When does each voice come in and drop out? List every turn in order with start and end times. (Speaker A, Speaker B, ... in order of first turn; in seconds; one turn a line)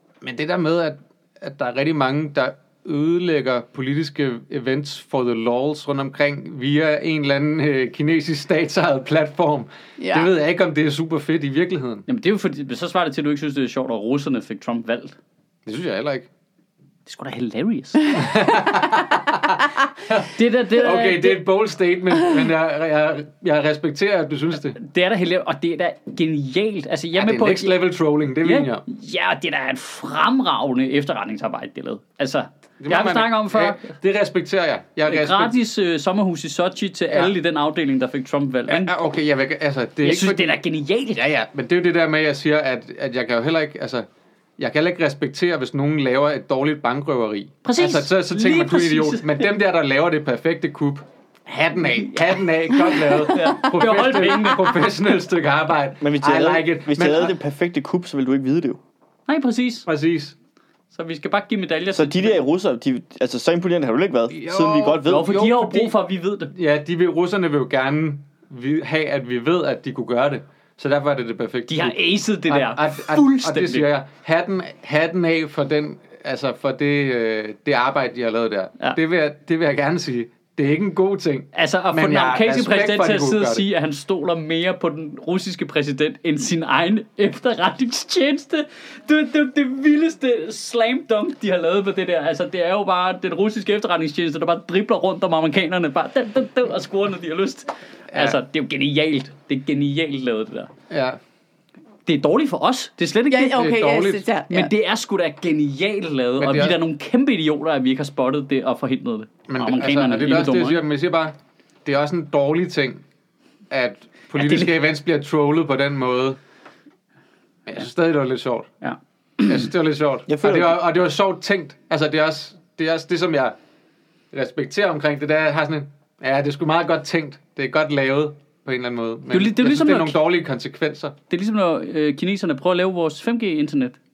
Speaker A: 0.2-12.1
Speaker B: 10.0-10.3
Speaker C: 12.1-15.2
Speaker A: 15.7-16.3
Speaker C: 17.1-18.3
Speaker A: 18.1-24.8
Speaker C: 20.3-21.4
Speaker C: 24.8-27.8
Speaker A: 27.2-28.8
Speaker C: 28.4-33.9
Speaker A: 32.8-35.5
Speaker C: 35.1-38.9
Speaker A: 38.7-40.6
Speaker C: 40.0-41.2
Speaker A: 41.2-44.1
Speaker A: 44.6-57.3
Speaker C: 47.6-49.5
Speaker C: 51.8-54.8
Speaker B: 53.1-53.6
Speaker D: 56.0-58.8
Speaker C: 59.3-59.9
Speaker A: 59.9-60.4
Speaker C: 60.9-62.4
Speaker D: 61.9-65.8
Speaker A: 64.3-65.0
Speaker C: 65.0-66.5
Speaker A: 65.6-65.9
Speaker A: 66.5-72.0
Speaker C: 71.7-73.9
Speaker A: 72.5-83.7
Speaker C: 81.5-100.7
Speaker A: 98.1-98.4
Speaker A: 100.9-101.2
Speaker C: 102.1-103.7
Speaker B: 103.3-104.7
Speaker A: 103.6-104.2
Speaker C: 104.5-110.8
Speaker A: 106.4-106.8
Speaker A: 109.5-113.0
Speaker A: 113.7-116.4
Speaker C: 114.3-114.7
Speaker A: 117.7-118.7
Speaker C: 118.8-119.7
Speaker A: 119.5-123.6
Speaker D: 120.3-120.8
Speaker A: 124.3-131.2
Speaker C: 129.3-130.2
Speaker C: 131.3-134.0